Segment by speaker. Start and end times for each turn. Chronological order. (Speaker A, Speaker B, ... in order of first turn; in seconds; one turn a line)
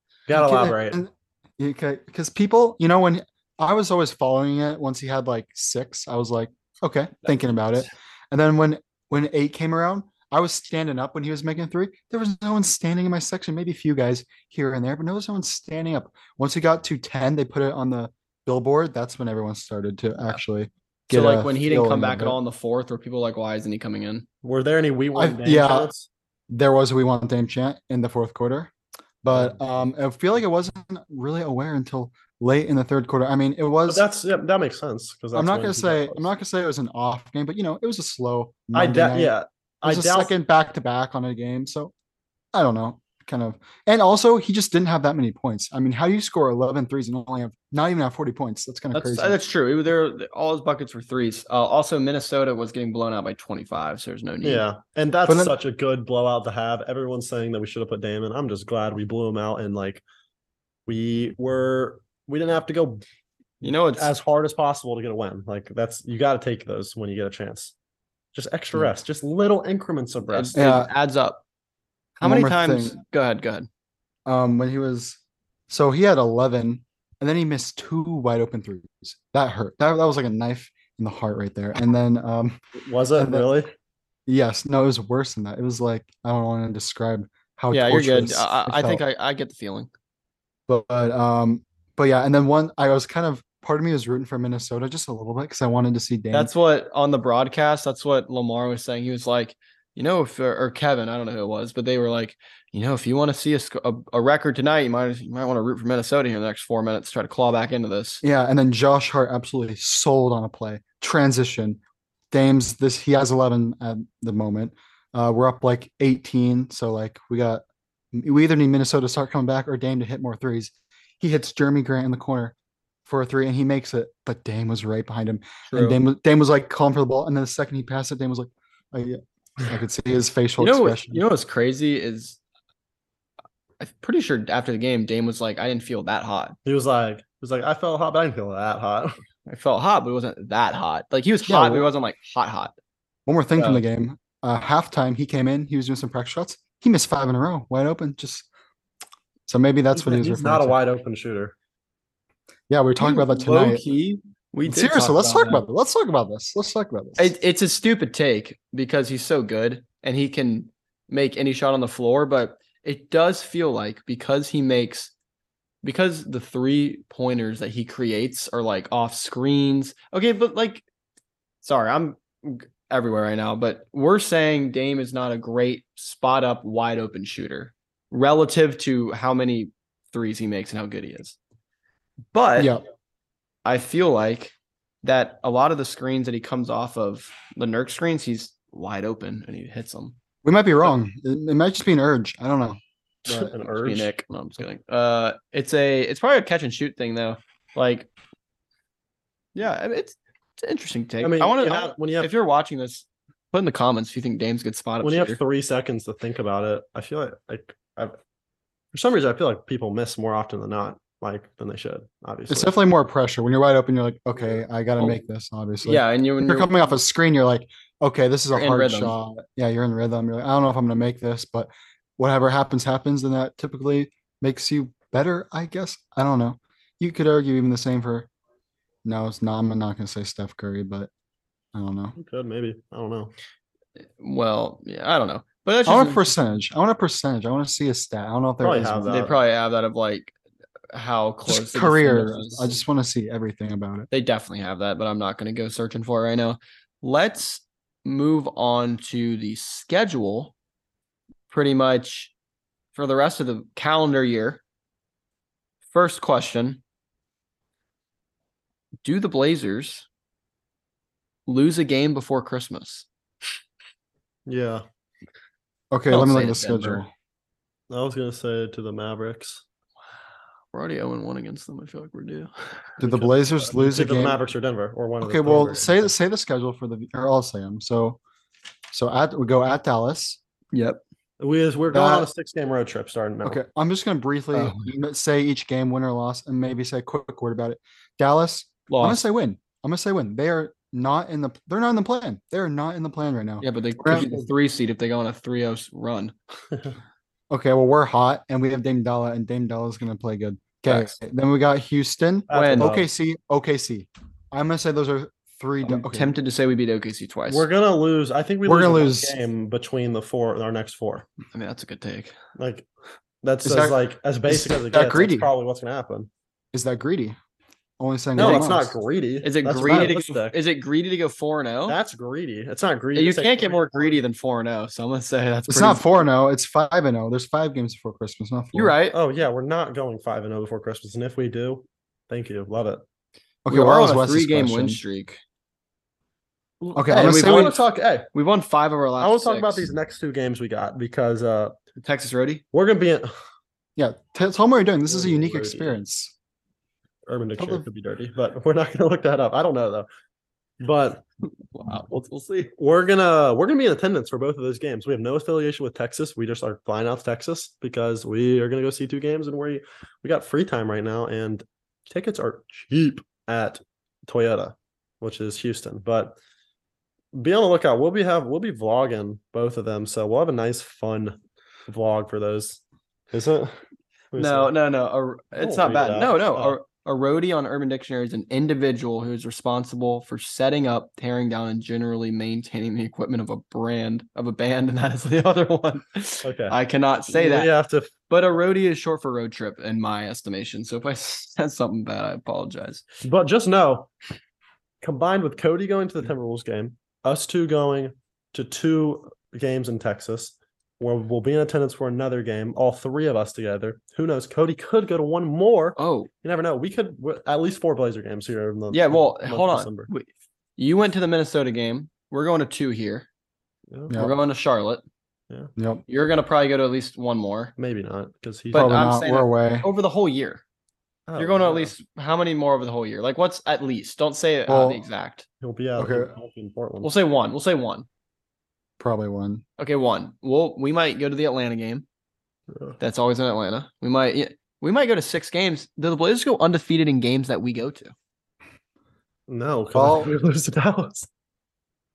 Speaker A: 0.3-1.0
Speaker B: 0.3-22.4
Speaker C: 21.1-24.2
Speaker A: 24.4-26.1
Speaker B: 25.1-25.9
Speaker B: 26.5-28.7
Speaker B: 29.2-34.0
Speaker A: 29.3-29.6
Speaker A: 33.9-36.2
Speaker B: 35.3-41.9
Speaker A: 38.7-40.3
Speaker B: 42.5-49.4
Speaker C: 48.9-54.6
Speaker A: 54.4-60.0
Speaker B: 55.2-55.5
Speaker A: 60.9-63.0
Speaker C: 63.6-64.1
Speaker A: 64.0-67.7
Speaker A: 68.3-70.6
Speaker C: 70.3-71.4
Speaker B: 70.5-70.9
Speaker C: 72.2-73.7
Speaker B: 72.2-73.0
Speaker B: 74.2-82.6
Speaker A: 82.8-83.7
Speaker B: 83.2-83.5
Speaker B: 84.3-89.0
Speaker C: 87.7-89.9
Speaker B: 90.7-96.5
Speaker C: 96.3-108.2
Speaker B: 108.2-111.8
Speaker B: 112.3-122.5
Speaker B: 123.0-131.2
Speaker C: 125.7-126.0
Speaker C: 130.6-132.4
Speaker C: 133.8-136.6
Speaker A: 136.6-139.2
Speaker C: 139.4-142.7
Speaker B: 141.5-141.9
Speaker B: 143.3-148.5
Speaker C: 143.6-143.8
Speaker B: 149.5-150.8
Speaker A: 149.9-151.5
Speaker B: 152.7-153.8
Speaker C: 153.0-155.6
Speaker B: 154.7-157.3
Speaker C: 157.2-165.1
Speaker C: 165.8-170.8
Speaker C: 171.6-181.4
Speaker C: 182.3-182.8
Speaker B: 182.6-182.8
Speaker C: 183.6-190.2
Speaker B: 190.4-192.8
Speaker A: 193.3-194.1
Speaker C: 193.3-198.1
Speaker C: 199.5-205.4
Speaker A: 201.2-202.3
Speaker A: 205.0-208.2
Speaker A: 208.9-212.7
Speaker B: 212.5-228.3
Speaker C: 215.8-216.7
Speaker C: 218.5-219.1
Speaker B: 229.0-231.1
Speaker B: 231.7-232.1
Speaker A: 232.2-233.3
Speaker C: 234.2-236.3
Speaker B: 235.8-239.2
Speaker A: 238.6-239.4
Speaker C: 239.1-240.3
Speaker C: 240.9-242.8
Speaker B: 241.5-244.1
Speaker C: 244.1-250.5
Speaker C: 251.5-252.3
Speaker C: 252.9-254.6
Speaker C: 255.9-256.8
Speaker C: 259.0-260.1
Speaker C: 261.5-263.1
Speaker A: 264.4-264.8
Speaker B: 265.9-267.1
Speaker C: 266.1-267.0
Speaker A: 267.9-269.6
Speaker C: 270.7-272.9
Speaker B: 273.0-274.4
Speaker A: 273.0-276.1
Speaker B: 275.2-278.2
Speaker B: 278.9-280.4
Speaker C: 280.7-281.0
Speaker A: 281.4-283.6
Speaker B: 281.9-282.3
Speaker B: 283.4-294.3
Speaker C: 284.5-284.9
Speaker C: 288.9-289.2
Speaker C: 293.6-296.3
Speaker A: 294.1-294.4
Speaker B: 297.5-306.3
Speaker C: 300.9-301.1
Speaker A: 302.5-303.1
Speaker C: 302.5-302.9
Speaker C: 305.8-307.7
Speaker A: 307.5-311.3
Speaker B: 308.6-309.4
Speaker C: 311.5-312.4
Speaker A: 312.6-312.9
Speaker A: 313.4-316.3
Speaker B: 313.6-315.5
Speaker B: 316.7-317.4
Speaker B: 318.0-318.9
Speaker A: 318.4-320.6
Speaker C: 318.4-318.6
Speaker C: 319.4-322.0
Speaker B: 319.9-320.2
Speaker A: 321.9-324.1
Speaker C: 323.1-326.2
Speaker B: 325.7-328.9
Speaker C: 328.7-329.2
Speaker A: 329.1-333.0
Speaker B: 333.6-335.0
Speaker C: 333.7-335.4
Speaker A: 336.8-338.3
Speaker C: 336.9-337.8
Speaker B: 336.9-337.7
Speaker C: 338.3-339.9
Speaker A: 339.2-341.8
Speaker C: 342.0-342.6
Speaker A: 342.7-343.3
Speaker B: 344.0-346.3
Speaker A: 345.1-346.0
Speaker A: 347.3-350.1
Speaker B: 347.6-347.9
Speaker A: 350.8-351.2
Speaker C: 351.4-352.7
Speaker A: 352.8-366.4
Speaker A: 367.3-373.8
Speaker A: 374.3-374.7
Speaker C: 374.4-387.7
Speaker A: 375.6-376.8
Speaker A: 386.4-386.8
Speaker A: 387.3-388.1
Speaker C: 388.3-393.0
Speaker A: 393.2-394.1
Speaker A: 395.0-410.1
Speaker C: 406.0-406.3
Speaker C: 408.9-413.3
Speaker C: 414.1-415.0
Speaker B: 415.8-416.0
Speaker C: 416.1-417.7
Speaker A: 417.8-419.1
Speaker C: 418.7-420.6
Speaker B: 418.7-419.9
Speaker A: 421.3-421.9
Speaker C: 421.4-425.4
Speaker B: 424.7-425.1
Speaker A: 425.6-427.1
Speaker B: 425.9-426.3
Speaker C: 427.0-428.1
Speaker B: 429.0-429.6
Speaker C: 429.8-432.1
Speaker A: 432.7-433.0
Speaker C: 433.0-438.1
Speaker A: 439.5-441.3
Speaker B: 439.9-440.3